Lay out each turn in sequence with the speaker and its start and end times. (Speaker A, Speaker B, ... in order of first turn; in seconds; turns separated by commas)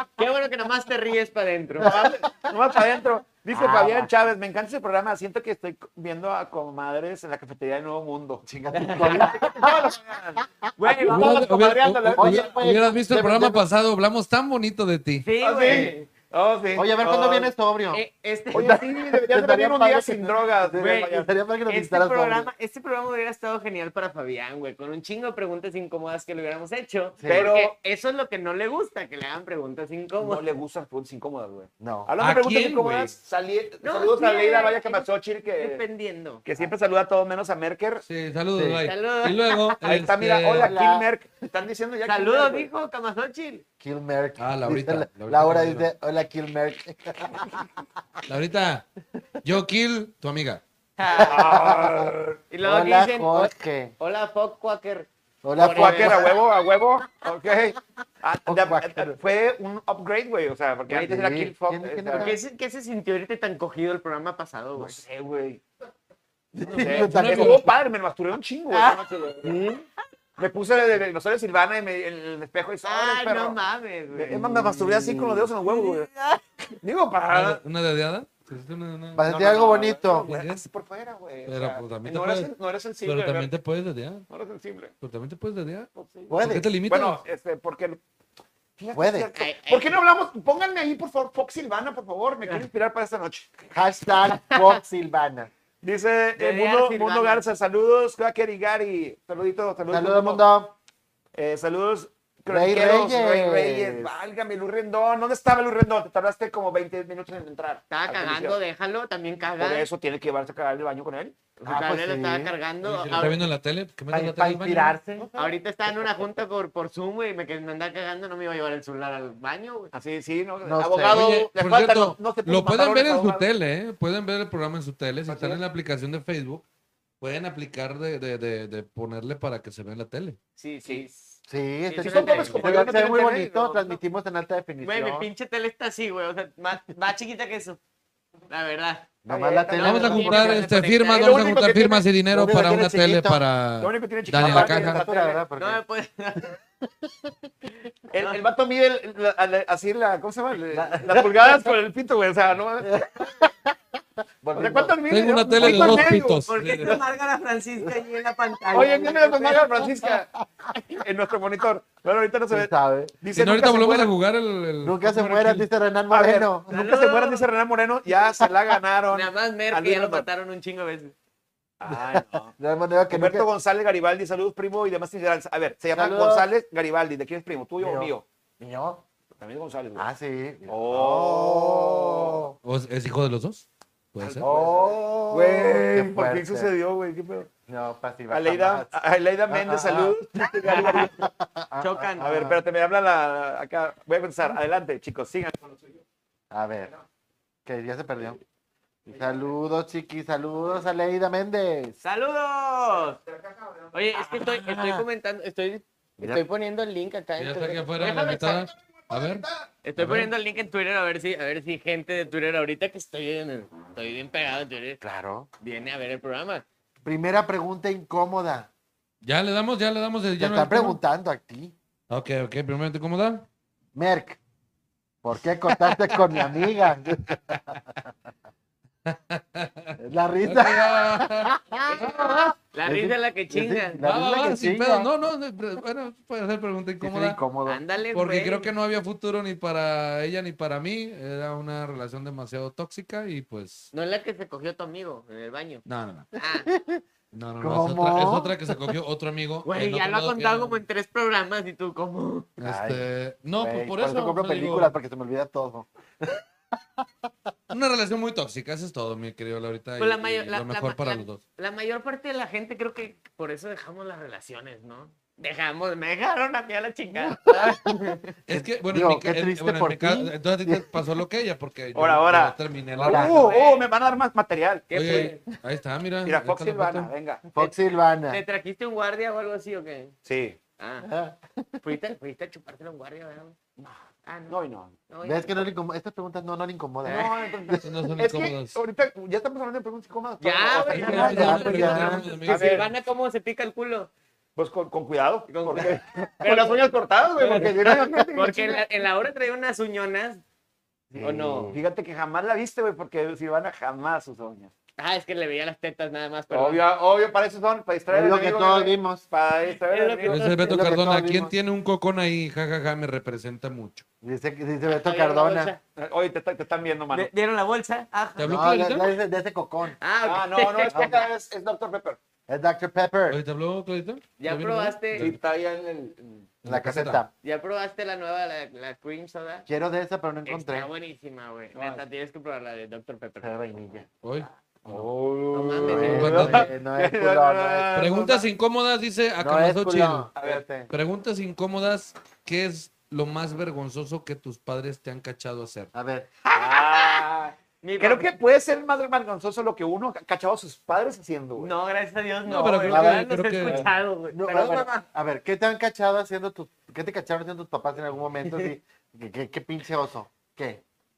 Speaker A: 0.2-2.0, Speaker B: 1.8-8.4, Speaker C: 1.8-2.5, Speaker C: 3.5-4.1, Speaker C: 8.4-10.4, Speaker A: 8.7-9.3, Speaker B: 8.9-12.7, Speaker A: 10.8-11.4, Speaker D: 11.0-15.3, Speaker C: 12.1-13.7, Speaker A: 15.2-16.1, Speaker B: 15.4-17.5, Speaker C: 15.7-15.9, Speaker C: 16.8-18.0, Speaker A: 17.9-18.9, Speaker B: 18.5-21.3, Speaker C: 19.2-22.5, Speaker A: 20.8-30.5, Speaker C: 27.2-27.6, Speaker B: 27.3-27.7, Speaker B: 30.2-35.8, Speaker C: 31.8-32.1, Speaker D: 32.2-33.1, Speaker A: 33.8-36.4, Speaker B: 36.5-38.0, Speaker D: 38.0-40.8, Speaker C: 38.5-38.8, Speaker A: 38.8-39.7, Speaker B: 39.8-42.7, Speaker C: 40.6-41.1, Speaker A: 42.0-43.6, Speaker C: 43.8-47.7, Speaker D: 44.4-45.9, Speaker D: 48.3-48.9, Speaker D: 49.4-50.6, Speaker A: 51.0-51.6, Speaker B: 51.1-52.4, Speaker C: 51.1-52.1, Speaker A: 52.5-56.4, Speaker C: 52.6-53.9, Speaker C: 55.4-56.4, Speaker B: 55.7-62.4, Speaker C: 58.5-59.2, Speaker C: 60.9-62.4, Speaker A: 62.1-65.0, Speaker B: 64.8-65.6, Speaker C: 66.5-67.7, Speaker D: 66.7-67.7, Speaker B: 66.8-69.6, Speaker A: 68.7-69.7, Speaker C: 69.5-69.8, Speaker B: 70.4-73.6, Speaker A: 72.8-76.4, Speaker B: 74.1-76.1, Speaker C: 74.3-75.5, Speaker B: 76.8-77.6, Speaker D: 77.3-79.3, Speaker C: 79.2-80.3, Speaker B: 79.2-83.5, Speaker D: 80.1-80.7, Speaker D: 81.5-84.3, Speaker B: 84.3-84.9, Speaker D: 85.0-85.9, Speaker B: 86.0-88.0, Speaker C: 86.3-86.7, Speaker D: 86.4-87.2, Speaker B: 88.8-93.5, Speaker C: 88.9-89.3, Speaker A: 89.3-89.9, Speaker C: 93.7-95.5, Speaker B: 95.8-100.4, Speaker A: 96.4-97.4, Speaker C: 99.9-100.7, Speaker B: 101.3-108.6, Speaker C: 102.5-104.2, Speaker A: 107.9-109.9, Speaker B: 109.6-111.4, Speaker A: 111.6-113.5, Speaker C: 111.7-112.6, Speaker D: 113.1-115.0, Speaker C: 114.1-115.3, Speaker B: 115.2-115.5, Speaker A: 115.3-119.9, Speaker B: 119.9-123.5, Speaker C: 120.7-121.5, Speaker D: 121.1-126.6, Speaker B: 125.3-125.6, Speaker D: 127.2-130.4, Speaker A: 130.6-132.9, Speaker C: 131.5-135.3, Speaker B: 132.0-134.0, Speaker A: 134.8-137.8, Speaker A: 138.5-139.1, Speaker C: 139.2-140.6, Speaker B: 139.3-142.1, Speaker A: 139.8-141.5, Speaker D: 139.8-145.0, Speaker C: 142.3-143.4, Speaker B: 143.8-145.4, Speaker C: 144.4-145.8, Speaker A: 145.6-146.5, Speaker C: 146.8-147.3, Speaker B: 148.1-153.5, Speaker C: 150.7-151.7, Speaker C: 152.8-153.7, Speaker C: 154.4-155.0, Speaker B: 154.6-156.5, Speaker D: 155.1-157.0, Speaker C: 155.6-156.1, Speaker A: 155.7-159.7, Speaker B: 158.7-164.1, Speaker C: 159.8-160.8, Speaker C: 162.5-163.2, Speaker D: 163.3-165.7, Speaker C: 164.8-166.7, Speaker B: 166.1-170.3, Speaker A: 166.7-167.5, Speaker A: 169.1-171.1, Speaker B: 171.8-172.5, Speaker C: 171.9-173.5, Speaker B: 173.1-178.2, Speaker C: 175.9-176.5, Speaker C: 177.8-179.0, Speaker B: 179.4-180.1, Speaker C: 179.9-182.6, Speaker B: 180.7-182.5, Speaker D: 182.6-184.5, Speaker B: 184.2-187.5, Speaker C: 184.4-186.7, Speaker C: 187.7-188.9, Speaker B: 188.3-191.3, Speaker C: 189.5-192.6, Speaker A: 191.8-192.4, Speaker B: 192.2-196.0, Speaker C: 196.5-196.9, Speaker C: 197.7-198.4, Speaker C: 199.1-202.0, Speaker B: 199.1-199.5, Speaker A: 202.0-203.2, Speaker B: 203.2-204.3, Speaker A: 203.9-207.8, Speaker C: 204.4-205.1, Speaker D: 207.4-209.5, Speaker B: 207.9-209.7, Speaker A: 209.8-215.0, Speaker D: 210.0-210.3, Speaker C: 215.0-215.5, Speaker A: 215.6-216.7, Speaker C: 217.0-218.7, Speaker D: 219.2-221.0, Speaker C: 220.4-221.8, Speaker D: 222.1-223.5, Speaker C: 223.9-224.4, Speaker C: 225.2-227.6, Speaker D: 229.1-231.5, Speaker C: 230.0-235.1, Speaker A: 231.9-234.1, Speaker D: 234.0-237.4, Speaker C: 237.0-237.8, Speaker A: 237.6-238.7, Speaker D: 238.1-243.9, Speaker A: 243.9-245.8, Speaker D: 245.9-246.3, Speaker A: 246.4-246.7, Speaker C: 246.7-247.0, Speaker D: 247.3-250.8, Speaker C: 247.6-248.7, Speaker A: 249.7-252.5, Speaker D: 252.6-254.9, Speaker C: 252.6-256.4, Speaker D: 257.7-261.4, Speaker A: 260.0-268.3, Speaker C: 267.2-267.9, Speaker D: 268.5-273.5, Speaker C: 268.5-270.9, Speaker B: 271.9-275.3, Speaker C: 273.0-273.4, Speaker A: 273.3-273.9, Speaker A: 274.9-275.4, Speaker D: 274.9-277.1, Speaker B: 276.3-277.4, Speaker C: 277.5-278.4, Speaker A: 277.6-280.1, Speaker B: 280.3-280.6, Speaker A: 280.8-281.1, Speaker C: 281.0-281.8, Speaker A: 281.8-283.6, Speaker B: 283.8-284.9, Speaker A: 284.2-284.6, Speaker A: 285.1-285.7, Speaker C: 285.2-287.8, Speaker B: 287.0-292.9, Speaker D: 287.8-288.8, Speaker A: 290.4-294.1, Speaker D: 290.9-292.9, Speaker C: 290.9-292.3, Speaker B: 294.6-298.8, Speaker A: 295.5-296.9, Speaker A: 297.4-300.4, Speaker C: 301.1-301.8, Speaker A: 301.2-301.7, Speaker B: 301.7-304.7, Speaker A: 305.0-306.9, Speaker B: 306.5-310.5, Speaker C: 308.1-309.2, Speaker A: 309.9-310.8, Speaker D: 310.3-314.1, Speaker C: 310.6-311.5, Speaker C: 314.2-315.7, Speaker A: 314.9-315.8, Speaker B: 316.0-317.3, Speaker A: 317.1-318.6, Speaker D: 318.4-319.1, Speaker C: 318.4-320.0, Speaker A: 320.0-321.3, Speaker B: 320.2-322.2, Speaker C: 320.9-321.2, Speaker C: 322.5-323.4, Speaker D: 323.3-325.4, Speaker A: 324.4-325.3, Speaker B: 325.1-326.5, Speaker D: 326.6-327.2, Speaker C: 326.6-327.3, Speaker A: 327.4-329.7, Speaker C: 329.7-330.9, Speaker A: 330.5-333.5, Speaker B: 331.7-332.0, Speaker C: 333.4-334.1, Speaker D: 334.2-335.1, Speaker B: 334.9-338.5, Speaker A: 335.5-336.7, Speaker C: 335.8-338.0, Speaker D: 335.9-336.7, Speaker D: 337.9-340.3, Speaker C: 339.4-340.9, Speaker B: 340.4-340.6, Speaker D: 340.9-345.9, Speaker C: 345.9-346.3, Speaker B: 346.5-351.7, Speaker A: 346.5-347.3, Speaker A: 347.8-348.3, Speaker A: 351.6-355.1, Speaker D: 352.5-353.9, Speaker C: 352.9-353.3, Speaker C: 354.3-360.8